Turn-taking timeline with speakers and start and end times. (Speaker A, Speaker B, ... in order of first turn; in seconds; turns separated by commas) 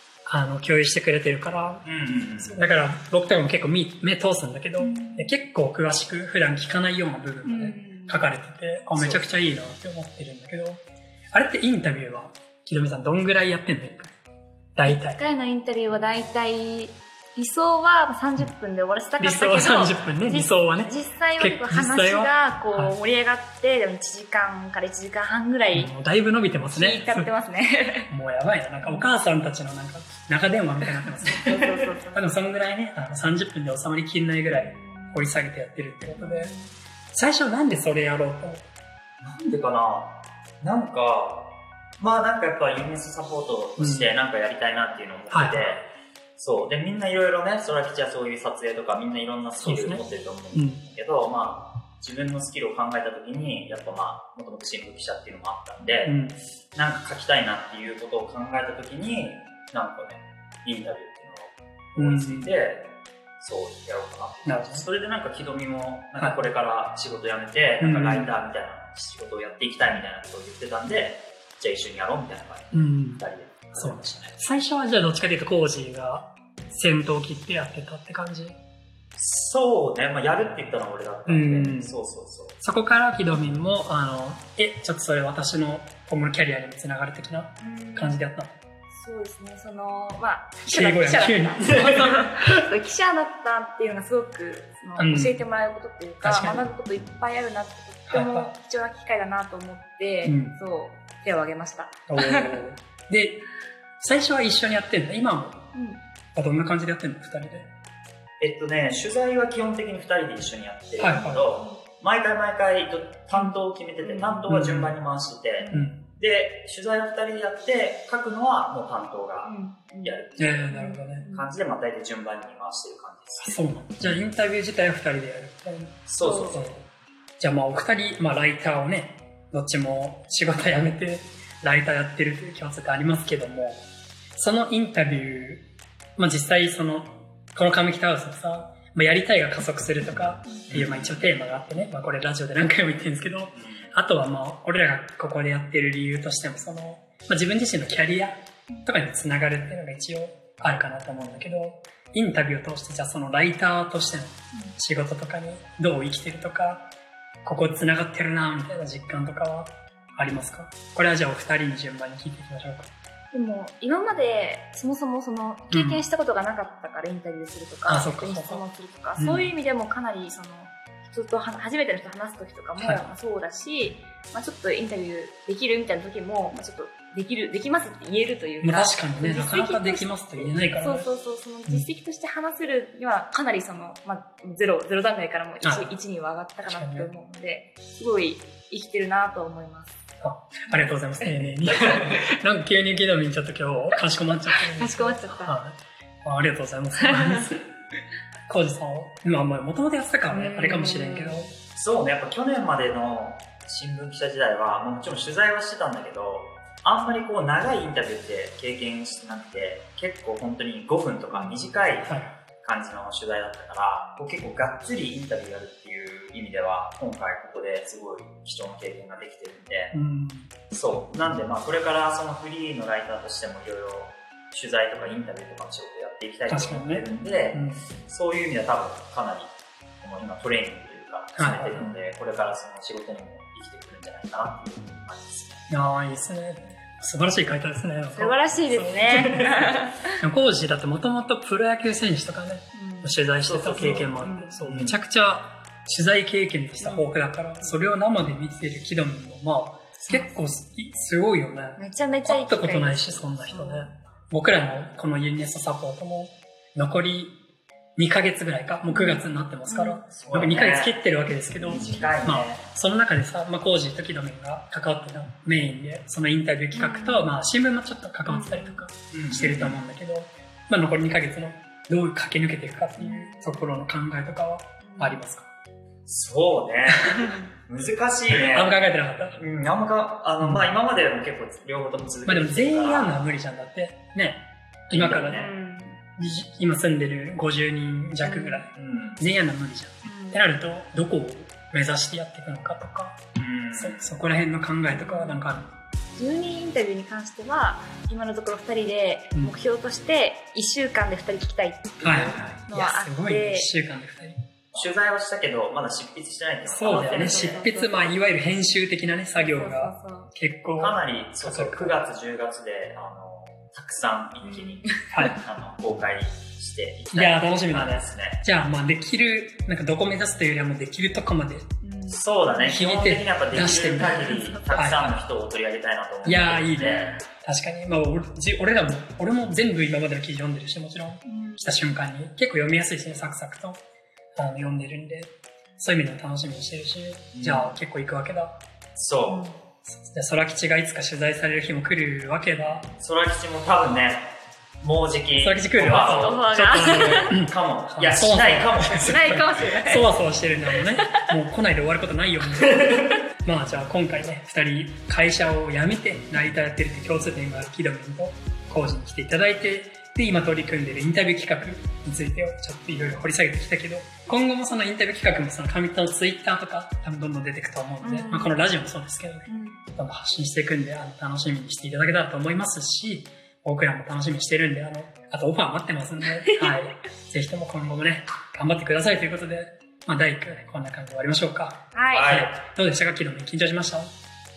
Speaker A: 0.2-1.8, Speaker B: 1.8-2.6, Speaker A: 2.4-14.1, Speaker C: 4.8-5.3, Speaker C: 7.4-8.2, Speaker B: 8.9-9.3, Speaker A: 14.8-15.2, Speaker C: 14.9-25.9, Speaker A: 19.2-23.0, Speaker A: 25.7-27.3, Speaker C: 26.7-28.1, Speaker A: 28.1-36.5, Speaker C: 28.8-29.1, Speaker C: 31.3-32.2, Speaker C: 34.5-35.4, Speaker C: 36.2-36.7, Speaker A: 37.1-38.7, Speaker B: 39.2-45.8, Speaker A: 43.8-44.1, Speaker A: 45.3-45.9, Speaker B: 46.4-56.1, Speaker A: 49.5-50.0, Speaker A: 50.5-50.8, Speaker A: 56.0-56.4, Speaker B: 56.7-74.4, Speaker A: 62.0-62.5, Speaker A: 64.4-64.9, Speaker A: 67.8-68.3, Speaker A: 72.7-78.6, Speaker B: 79.2-82.5, Speaker A: 81.3-81.9, Speaker A: 82.6-88.5, Speaker C: 87.6-88.2, Speaker C: 88.9-102.6, Speaker A: 90.6-92.6, Speaker A: 95.0-95.4, Speaker A: 96.2-96.8, Speaker A: 98.1-98.5, Speaker A: 100.2-100.6, Speaker A: 102.1-103.4, Speaker A: 104.0-105.7, Speaker C: 105.7-106.0, Speaker A: 106.3-107.7, Speaker B: 108.4-120.7, Speaker A: 111.0-111.5, Speaker C: 113.3-114.5, Speaker A: 114.5-114.9, Speaker C: 115.6-115.9, Speaker A: 115.7-116.0, Speaker C: 119.4-120.2, Speaker A: 120.4-121.2, Speaker C: 120.7-121.5, Speaker B: 121.3-123.6, Speaker A: 123.4-126.9, Speaker B: 126.1-126.7, Speaker C: 126.2-126.7, Speaker A: 127.4-156.9, Speaker B: 140.7-141.3, Speaker B: 143.6-143.8, Speaker A: 157.4-162.9, Speaker C: 163.3-189.9, Speaker A: 165.7-166.0, Speaker A: 167.9-168.6, Speaker A: 169.2-169.5, Speaker A: 172.8-173.0, Speaker A: 178.6-181.1, Speaker A: 185.6-185.9, Speaker A: 186.6-187.1, Speaker A: 190.2-197.7, Speaker B: 191.8-192.1, Speaker C: 194.5-195.6, Speaker C: 197.0-197.5, Speaker A: 198.5-201.5, Speaker C: 200.3-201.5, Speaker B: 201.6-219.9, Speaker C: 211.3-211.6, Speaker A: 212.0-212.3, Speaker A: 219.9-220.5, Speaker B: 220.7-235.7, Speaker A: 226.5-227.8, Speaker A: 231.4-231.9, Speaker A: 235.7-257.4, Speaker C: 238.1-240.2, Speaker C: 242.7-243.2, Speaker B: 243.4-245.0, Speaker C: 243.8-244.6, Speaker C: 246.8-247.1, Speaker C: 250.1-250.6, Speaker C: 251.8-253.9, Speaker A: 257.9-275.5, Speaker C: 258.9-260.0, Speaker B: 260.1-261.0, Speaker B: 261.6-262.7, Speaker C: 261.7-262.1, Speaker C: 266.7-267.3, Speaker C: 268.3-268.8, Speaker B: 269.1-269.8, Speaker C: 273.0-273.8, Speaker C: 274.8-275.2, Speaker B: 276.1-278.8, Speaker A: 276.9-277.2, Speaker C: 277.1-277.5, Speaker A: 278.4-279.4, Speaker B: 279.3-283.3, Speaker A: 280.4-280.7, Speaker A: 282.3-285.4, Speaker B: 284.9-285.5, Speaker C: 285.3-286.0, Speaker A: 286.2-293.2, Speaker C: 288.2-288.6, Speaker B: 288.7-289.2, Speaker C: 290.0-290.4, Speaker B: 293.4-294.2, Speaker A: 293.7-295.7, Speaker C: 294.9-295.4, Speaker C: 296.2-302.0, Speaker B: 302.0-302.6, Speaker A: 302.0-304.4, Speaker C: 302.6-303.7, Speaker B: 304.7-307.6, Speaker A: 306.7-312.0, Speaker C: 306.9-308.2, Speaker C: 309.3-310.3, Speaker B: 310.8-318.4, Speaker C: 314.4-315.3, Speaker A: 315.1-315.4, Speaker A: 317.1-321.7, Speaker C: 321.8-322.7, Speaker B: 322.1-327.2, Speaker A: 322.7-325.2, Speaker C: 324.2-324.6, Speaker A: 326.2-333.8, Speaker C: 331.2-331.7, Speaker A: 334.4-338.6, Speaker B: 337.3-337.8, Speaker B: 338.9-339.5, Speaker C: 339.3-339.5, Speaker A: 339.9-342.9, Speaker B: 342.9-346.5, Speaker A: 345.4-384.1, Speaker C: 346.1-347.4, Speaker B: 347.3-349.3, Speaker C: 349.0-350.1, Speaker C: 350.7-351.2, Speaker B: 362.9-363.2, Speaker C: 368.0-368.6, Speaker C: 369.4-369.8, Speaker C: 376.5-376.8, Speaker C: 381.9-382.4, Speaker B: 382.1-382.6